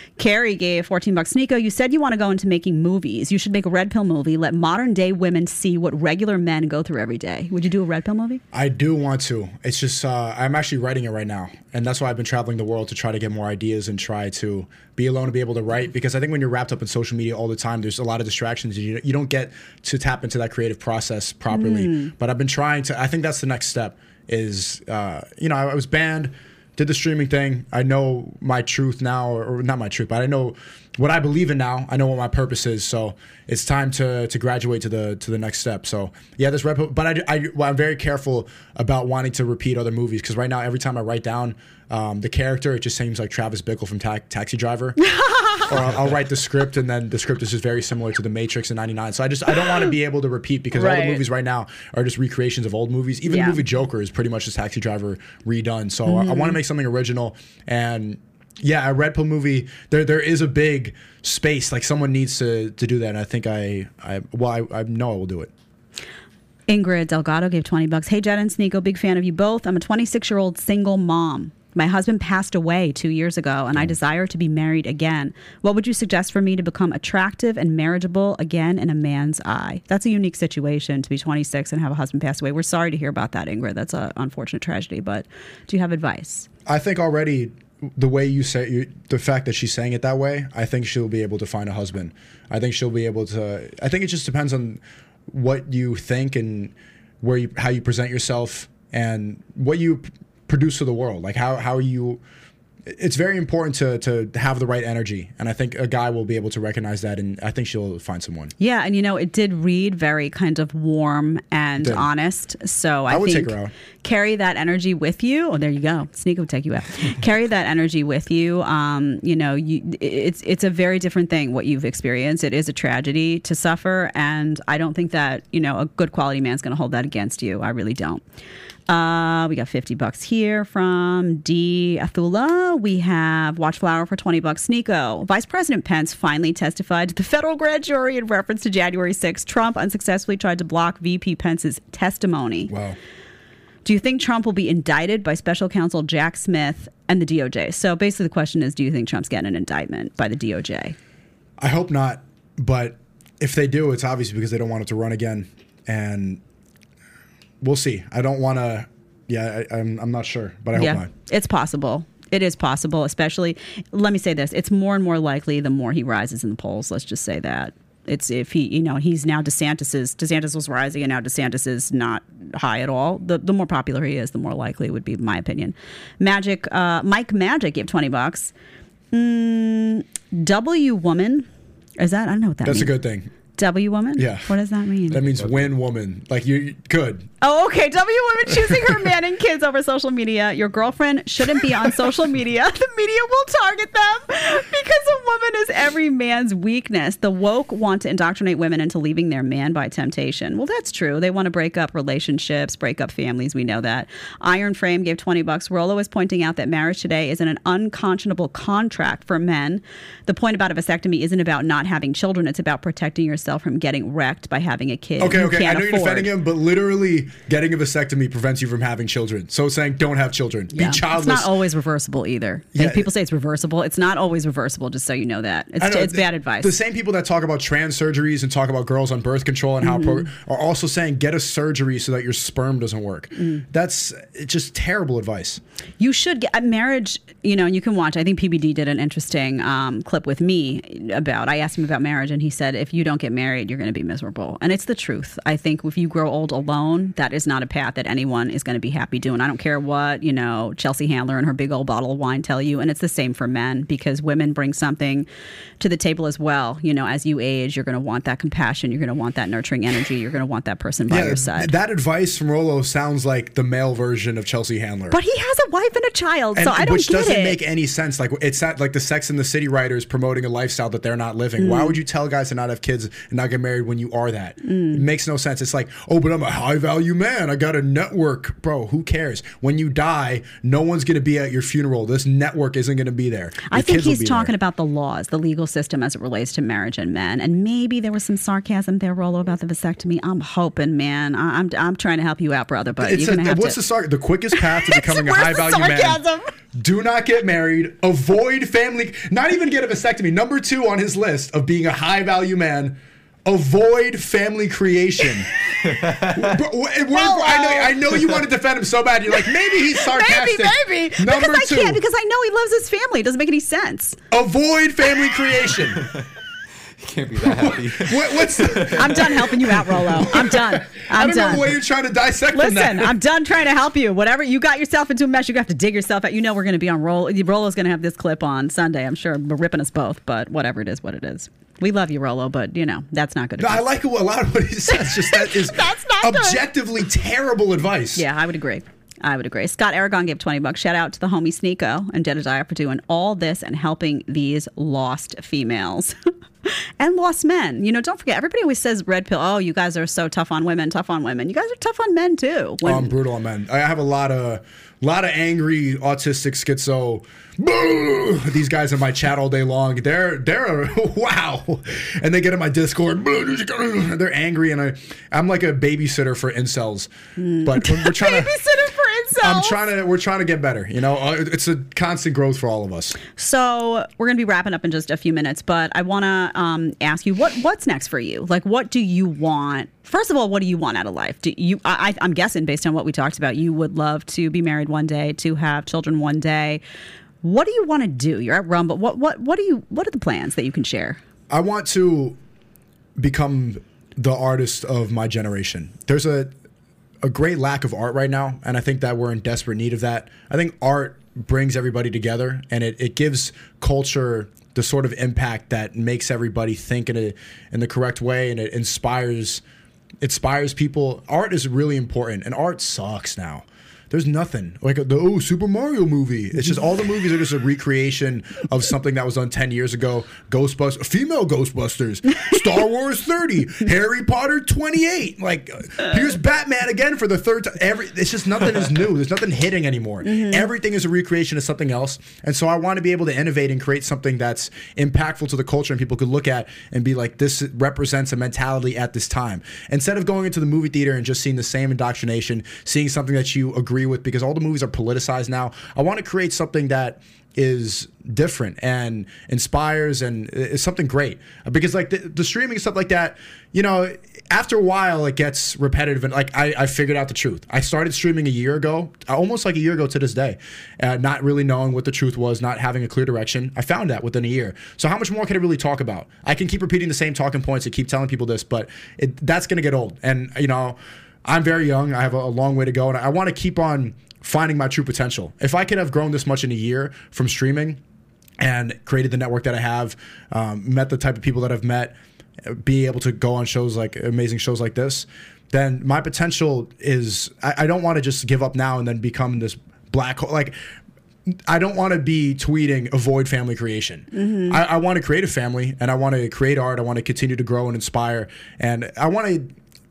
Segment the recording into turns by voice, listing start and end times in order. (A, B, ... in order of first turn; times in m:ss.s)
0:00.2-0:08.4 A
0:08.5-0:45.0 B
0:21.5-0:22.1 A
0:45.0-0:45.7 A
0:45.7-1:05.5 B
0:50.7-0:51.2 A
0:53.3-0:53.6 A
0:56.1-0:56.6 A
1:06.7-1:26.5 A
1:26.7-1:42.2 B
1:42.9-1:48.5 B
1:48.6-2:08.2 A
1:51.8-1:52.1 B
1:53.1-1:53.7 B
2:08.9-2:22.7 A
2:22.7-2:23.0 B
2:23.8-2:31.0 A
2:31.6-2:36.4 B
2:37.6-2:41.1 B
2:40.8-2:58.5 A
2:59.1-3:01.5 A
3:02.0-3:02.9 A
3:02.6-3:03.3 B
3:03.6-3:05.2 A
3:04.2-3:04.5 B
3:05.1-3:07.3 B
3:07.4-3:36.3 A
3:35.2-3:41.5 B
3:40.7-3:46.8 A
3:42.7-3:43.1 B
3:45.8-3:55.6 B
3:49.8-3:50.3 A
3:53.4-3:53.6 A
3:56.0-4:15.3 A
4:15.8-4:21.7 A
4:21.1-4:25.2 B
4:25.1-4:27.6 A
4:26.6-4:44.5 B
4:31.6-4:32.0 A
4:34.6-4:35.0 A
4:43.7-4:53.8 A
4:53.0-4:56.2 B
4:54.6-4:56.5 A
4:56.8-5:12.0 B
5:06.1-5:06.4 C
5:07.1-5:08.0 A
5:09.8-5:14.2 A
5:14.3-5:16.1 B
5:17.0-5:19.5 C
5:17.4-5:23.2 B
5:18.9-5:21.7 A
5:22.5-5:33.8 A
5:33.6-5:38.2 B
5:35.3-5:36.6 A
5:38.2-5:53.1 A
5:52.8-6:07.1 B
6:07.4-6:09.8 A
6:07.6-6:08.5 B
6:09.4-6:13.2 B
6:13.3-6:26.8 A
6:27.4-6:31.2 A
6:31.5-6:32.4 B
6:33.2-6:36.5 B
6:37.2-6:49.6 B
6:50.2-7:58.0 B
7:10.2-7:10.6 A
7:58.6-8:10.8 B
8:11.5-8:19.7 B
8:14.3-8:14.8 A